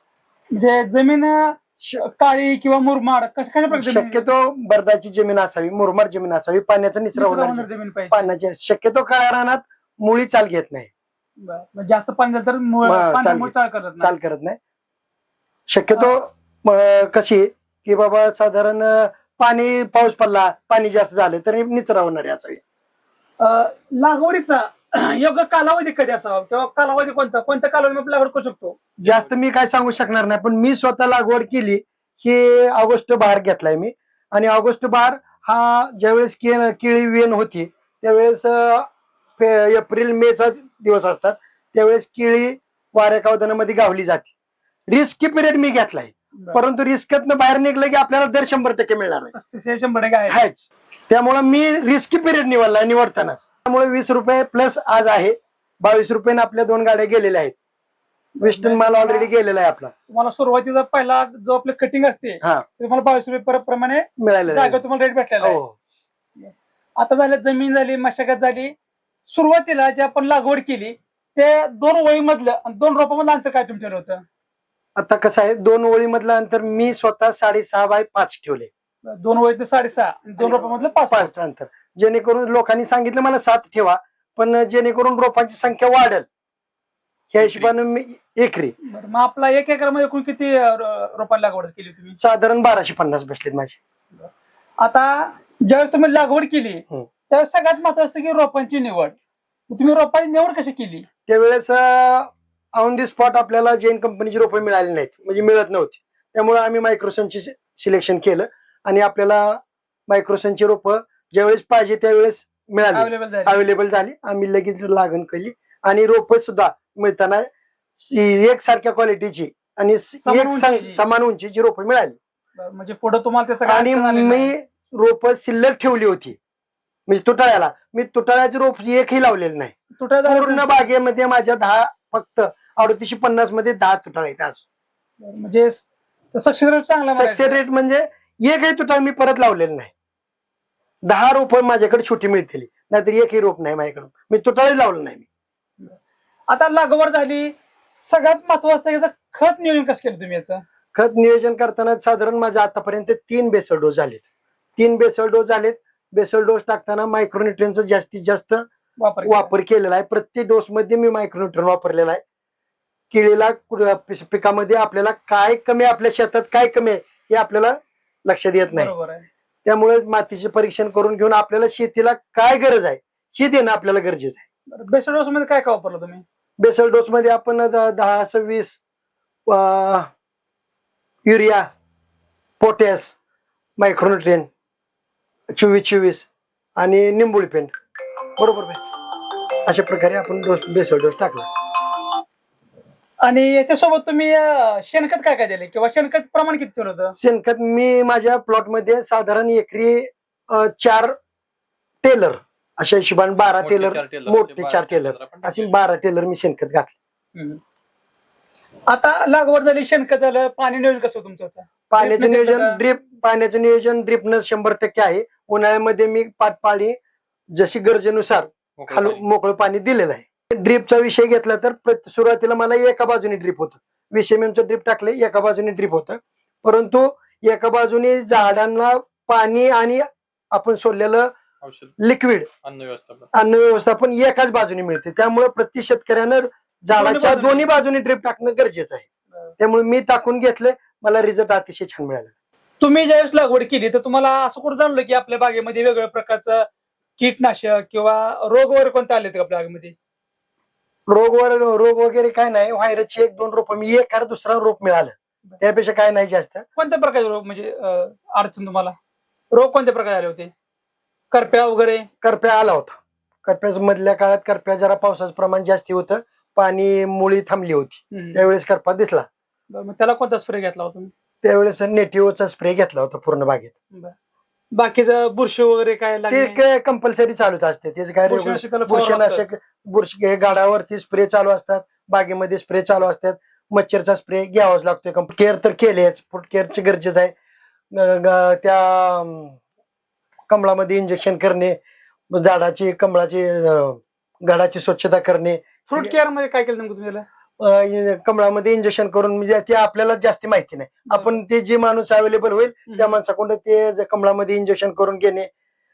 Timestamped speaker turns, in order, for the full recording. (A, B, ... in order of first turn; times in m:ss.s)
0:00.5-0:04.2 A
0:01.8-0:02.0 B
0:03.7-0:10.9 B
0:07.2-0:08.3 A
0:11.4-0:14.1 A
0:12.8-0:14.6 B
0:15.7-0:22.6 B
0:23.4-0:28.8 A
0:29.0-0:38.9 B
0:29.0-0:29.3 C
0:39.4-0:44.3 B
0:44.9-0:49.3 B
0:49.3-0:50.4 A
0:50.3-0:57.5 B
0:58.4-0:59.3 A
0:58.4-0:59.9 B
1:00.1-1:05.6 A
1:04.2-1:04.8 B
1:05.4-1:05.7 B
1:06.4-1:08.7 A
1:09.3-1:14.2 A
1:15.0-1:18.7 B
1:19.0-1:21.3 A
1:20.4-1:26.2 B
1:27.3-1:28.7 B
1:27.4-1:27.7 C
1:28.8-1:32.2 A
1:32.2-1:33.8 B
1:34.8-1:39.1 A
1:39.7-1:41.0 A
1:41.3-1:57.5 B
1:52.9-1:53.6 A
1:58.0-2:02.2 B
2:00.2-2:01.0 A
2:02.6-2:04.5 A
2:03.6-2:06.4 B
2:07.1-2:09.7 B
2:10.0-2:10.7 A
2:10.2-2:14.6 B
2:15.2-2:17.6 A
2:17.1-2:19.9 B
2:21.0-2:25.2 B
2:26.5-2:27.5 A
2:28.0-2:30.6 A
2:30.9-2:34.2 B
2:34.8-2:38.6 B
2:39.0-2:39.5 A
2:39.2-2:42.2 B
2:43.1-2:48.9 B
2:48.7-2:49.3 A
2:49.6-2:54.4 B
2:54.7-2:56.2 A
2:56.6-2:58.8 B
2:59.5-3:00.1 B
3:01.2-3:01.7 B
3:02.6-3:03.1 B
3:03.8-3:04.5 B
3:05.5-3:07.7 B
3:08.4-3:08.8 B
3:09.6-3:11.8 B
3:13.2-3:17.1 A
3:17.1-3:21.2 B
3:22.0-3:27.0 B
3:23.6-3:25.7 C
3:27.3-3:27.6 A
3:28.9-3:32.8 A
3:31.9-3:37.0 B
3:37.5-3:51.3 B
3:38.8-3:39.2 C
3:51.6-3:52.0 C
3:52.0-3:52.5 B
3:52.6-3:53.3 C
3:53.3-3:59.1 B
3:56.9-3:57.7 A
3:59.6-4:02.3 B
4:02.8-4:06.6 A
4:07.2-4:09.9 A
4:11.1-4:16.6 B
4:16.8-4:18.9 A
4:19.5-4:20.5 A
4:21.3-4:22.1 A
4:22.2-4:29.3 B
4:28.1-4:28.4 A
4:29.7-4:31.1 A
4:31.4-4:33.7 B
4:34.7-4:36.6 A
4:36.3-4:47.3 B
4:38.3-4:39.5 A
4:47.9-4:49.6 B
4:50.5-4:51.8 B
4:52.3-4:56.1 B
4:55.9-4:57.2 A
4:57.6-5:05.5 B
5:02.9-5:03.1 A